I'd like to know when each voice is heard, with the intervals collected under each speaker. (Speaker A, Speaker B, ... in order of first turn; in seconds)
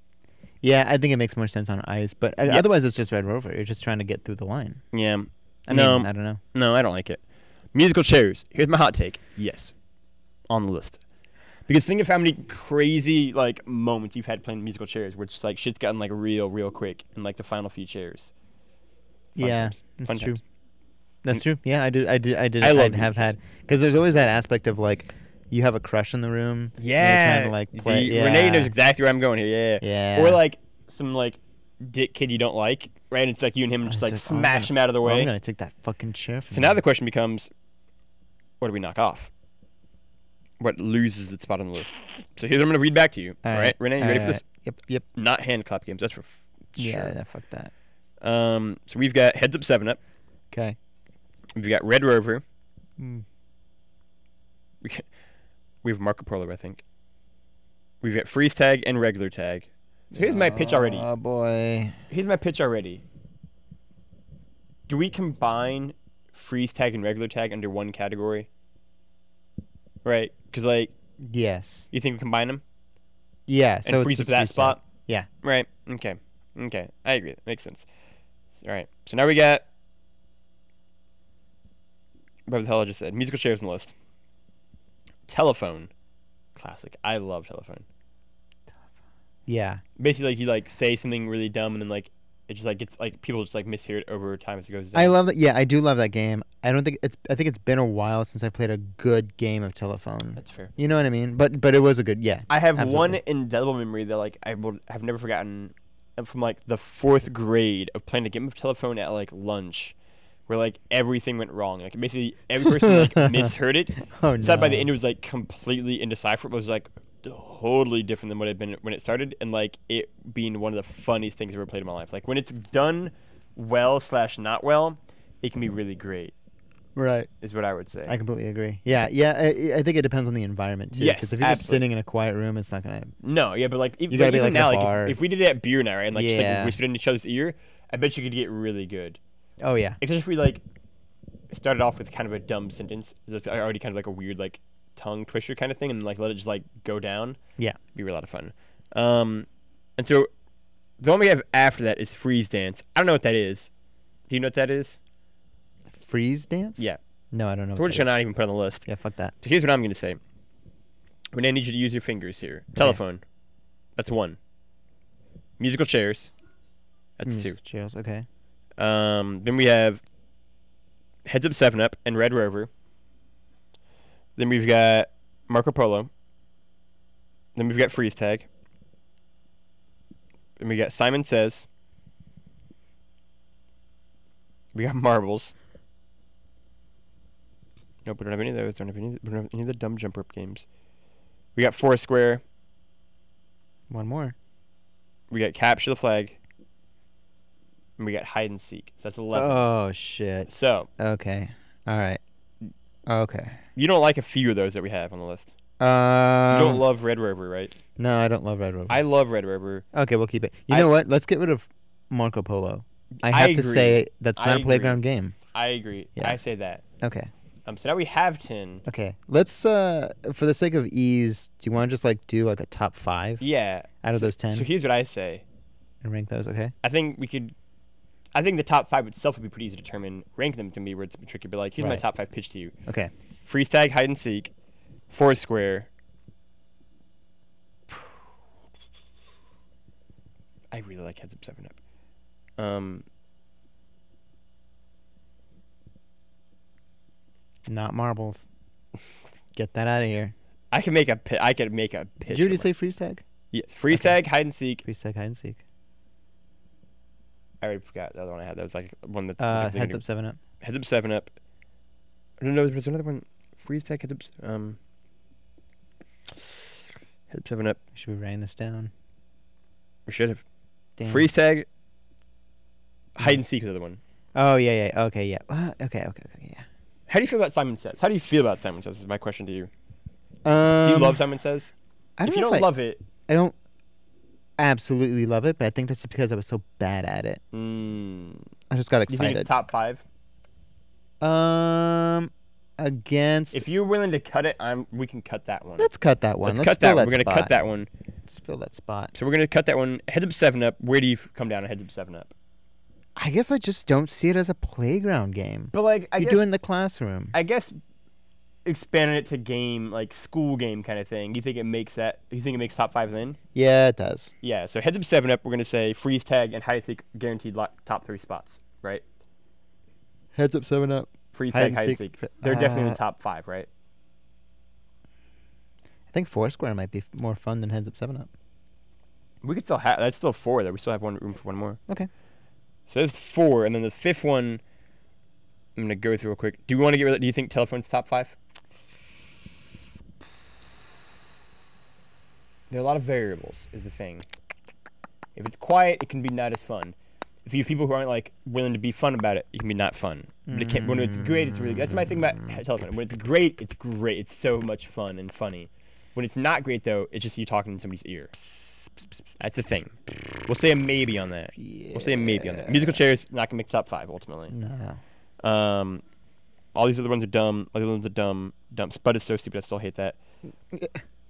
Speaker A: 0.6-4.8, 5.7-6.4, 19.4-20.4, 21.2-28.7, 29.8-30.4, 33.9-36.8, 43.4-45.0, 46.8-47.7, 50.5-50.8, 53.0-53.2, 60.1-62.0, 71.2-71.9, 73.5-75.3, 89.5-89.8, 94.9-103.2, 112.6-114.9, 127.0-127.3, 128.1-133.1, 134.1-135.2, 136.1-136.8, 139.6-140.0, 155.9-158.2, 158.8-159.3, 167.2-168.2, 193.9-194.3, 199.3-202.2, 203.1-203.6, 205.8-206.8, 208.0-209.0, 209.9-215.3, 217.0-217.3, 218.8-223.4, 224.0-224.7, 226.0-226.7, 247.7-248.5, 249.5-250.3, 252.3-253.2, 254.8-255.6, 259.4-260.4, 267.9-268.9, 271.0-271.3, 274.3-276.6, 280.4-281.2, 282.2-282.7, 283.3-283.5, 284.6-287.4, 288.7-289.5, 291.2-293.6, 295.8-297.5, 298.2-299.1, 303.2-307.3, 313.5-314.3, 320.3-323.0, 326.1-328.3, 350.5-352.5, 361.6-363.0, 364.5-365.0, 370.7-371.0
Speaker B: 4.9-7.2, 7.7-9.7, 10.5-11.0, 11.7-18.3, 19.4-20.4, 22.6-23.3, 26.8-35.3, 36.5-37.5, 38.6-39.3, 40.6-44.4, 45.1-47.1, 48.2-50.0, 51.5-52.4, 55.8-56.8, 58.0-61.1, 62.1-63.0, 64.9-68.5, 70.0-70.9, 71.9-72.6, 73.8-74.8, 75.4-77.9, 78.6-79.6, 82.5-83.9, 85.3-85.9, 86.5-87.8, 90.0-95.2, 100.4-100.7, 102.5-109.9, 110.5-126.3, 127.4-128.1, 130.9-131.8, 133.2-139.2, 140.0-140.6, 141.5-147.4, 147.9-149.5, 150.0-150.3, 151.0-153.7, 154.3-155.0, 157.8-158.9, 159.4-160.2, 161.3-163.2, 164.0-164.4, 165.6-166.3, 167.2-167.5, 168.8-170.0, 171.2-172.7, 174.4-176.1, 177.6-178.5, 180.6-181.7, 184.7-185.5, 188.0-190.6, 191.6-192.4, 195.3-196.4, 198.0-199.7, 200.5-200.9, 203.8-205.5, 206.5-207.7, 208.9-209.8, 213.2-215.0, 215.5-216.8, 217.7-218.8, 223.4-225.4, 226.8-227.5, 228.3-232.7, 233.4-234.5, 235.1-235.9, 240.7-241.8, 242.6-243.0, 250.7-252.7, 253.5-254.8, 257.6-260.0, 260.6-261.3, 262.4-264.8, 267.3-267.8, 270.1-270.4, 271.1-271.7, 273.1-274.0, 277.1-279.7, 280.8-281.7, 282.2-283.0, 287.5-288.4, 289.1-290.0, 293.5-295.9, 296.4-297.9, 299.1-302.3, 305.7-306.4, 307.3-307.7, 308.6-313.4, 314.4-319.0, 321.3-323.7, 329.4-331.8, 332.9-334.6, 335.8-338.4, 342.7-344.2, 345.4-358.3, 359.4-359.9, 360.5-364.5, 365.4-366.0, 366.7-370.2